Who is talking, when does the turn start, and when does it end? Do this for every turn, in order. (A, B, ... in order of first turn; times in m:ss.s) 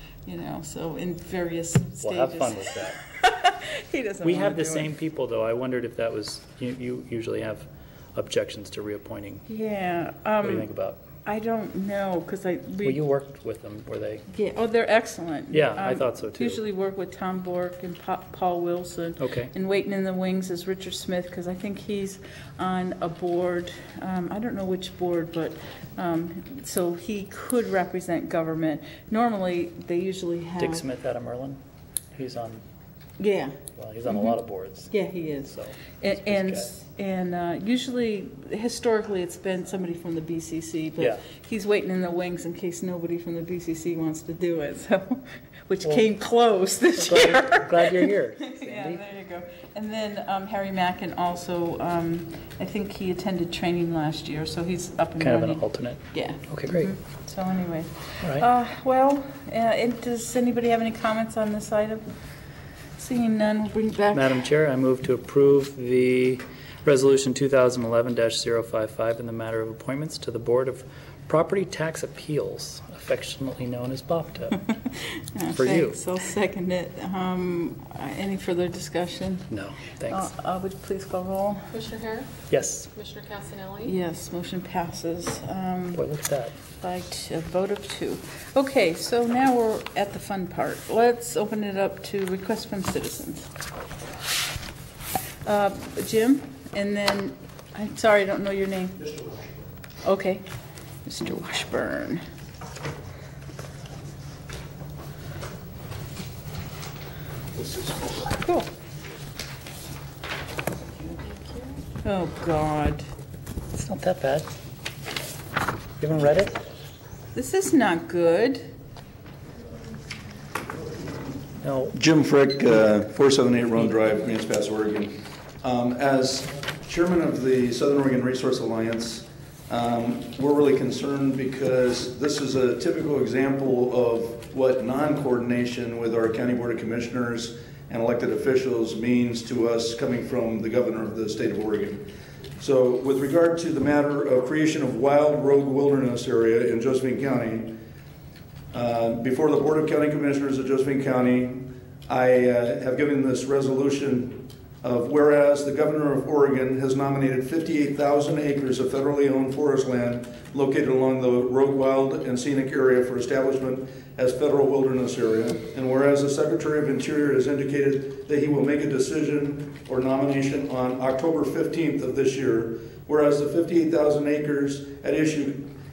0:00.2-0:04.9 A
0:02.0-0:03.0 B
0:04.2-0:09.4 B
0:09.5-0:10.7 A
0:10.4-0:11.0 B
0:11.2-0:13.0 A
0:12.8-0:14.2 B
0:14.3-0:30.8 A
0:15.5-0:16.6 B
0:19.2-0:19.5 B
0:30.6-0:31.6 B
0:32.1-0:32.6 B
0:33.2-0:33.6 A
0:33.8-0:36.7 B
0:34.9-1:02.0 A
0:47.0-0:49.0 B
0:55.2-0:56.9 B
1:03.0-1:04.4 A
1:04.1-1:14.7 B
1:15.3-1:19.5 A
1:15.6-1:16.0 B
1:19.5-1:20.3 B
1:20.1-1:21.7 A
1:21.7-1:22.3 C
1:22.5-1:22.9 B
1:22.9-1:23.9 C
1:23.8-1:26.0 A
1:25.9-1:26.6 B
1:26.8-1:33.5 A
1:35.4-1:39.2 A
1:40.0-1:40.4 A
1:41.0-1:42.2 A
1:48.4-1:48.7 A
1:51.1-1:51.8 C
1:52.0-1:53.0 A
1:53.7-1:54.5 B
1:56.0-1:56.6 B
1:57.3-1:58.6 A
2:01.6-2:02.0 B
2:01.9-2:05.1 D
2:05.6-2:22.0 D
2:22.6-2:27.7 D
2:28.7-2:55.7 D